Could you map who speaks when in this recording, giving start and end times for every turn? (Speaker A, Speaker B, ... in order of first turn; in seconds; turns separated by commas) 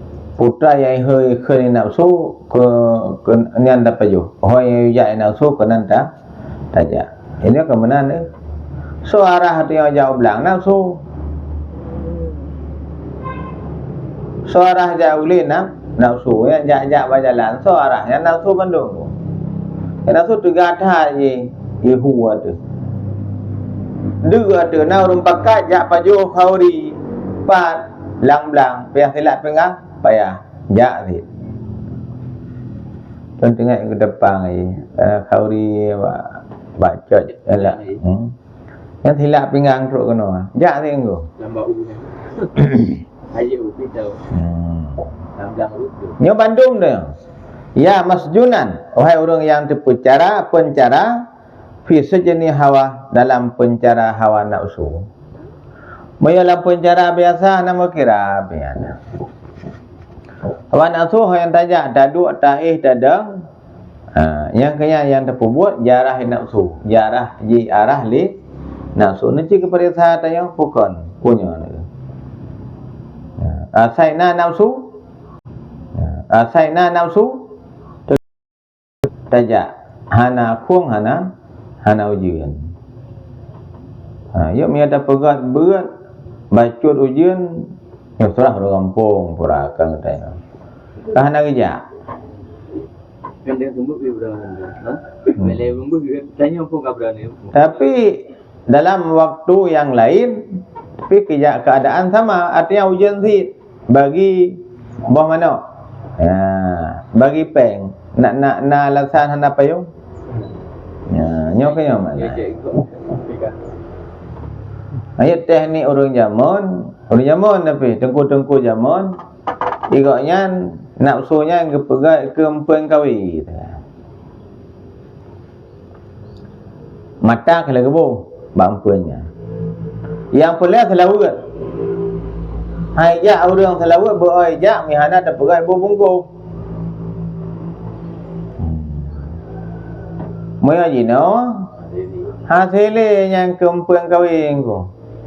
Speaker A: 0.4-6.1, Speaker A: 6.7-8.3, Speaker A: 9.0-11.0, Speaker A: 14.5-19.1, Speaker A: 20.1-22.6, Speaker A: 24.2-31.2, Speaker A: 33.4-38.3, Speaker B: 37.5-38.0, Speaker A: 39.0-41.3, Speaker B: 41.4-44.3, Speaker A: 44.3-45.1, Speaker B: 45.4-46.2, Speaker A: 46.2-47.1, Speaker A: 47.8-51.2, Speaker A: 51.9-55.1, Speaker A: 56.2-59.0, Speaker A: 60.7-63.5, Speaker A: 64.1-68.3, Speaker A: 69.0-71.9, Speaker A: 73.4-74.9, Speaker A: 76.0-77.5, Speaker A: 79.3-81.3, Speaker A: 81.8-82.7, Speaker A: 84.3-85.9, Speaker A: 86.5-90.4, Speaker A: 91.1-91.8, Speaker B: 93.4-97.7, Speaker A: 97.5-105.6, Speaker A: 106.2-109.9, Speaker A: 111.1-112.4, Speaker B: 111.6-113.6, Speaker A: 115.2-119.2, Speaker A: 119.9-123.8, Speaker A: 127.2-129.3, Speaker A: 130.3-131.4, Speaker A: 132.9-136.3, Speaker A: 138.6-139.1, Speaker A: 140.6-141.7, Speaker B: 141.8-142.3, Speaker A: 142.4-144.9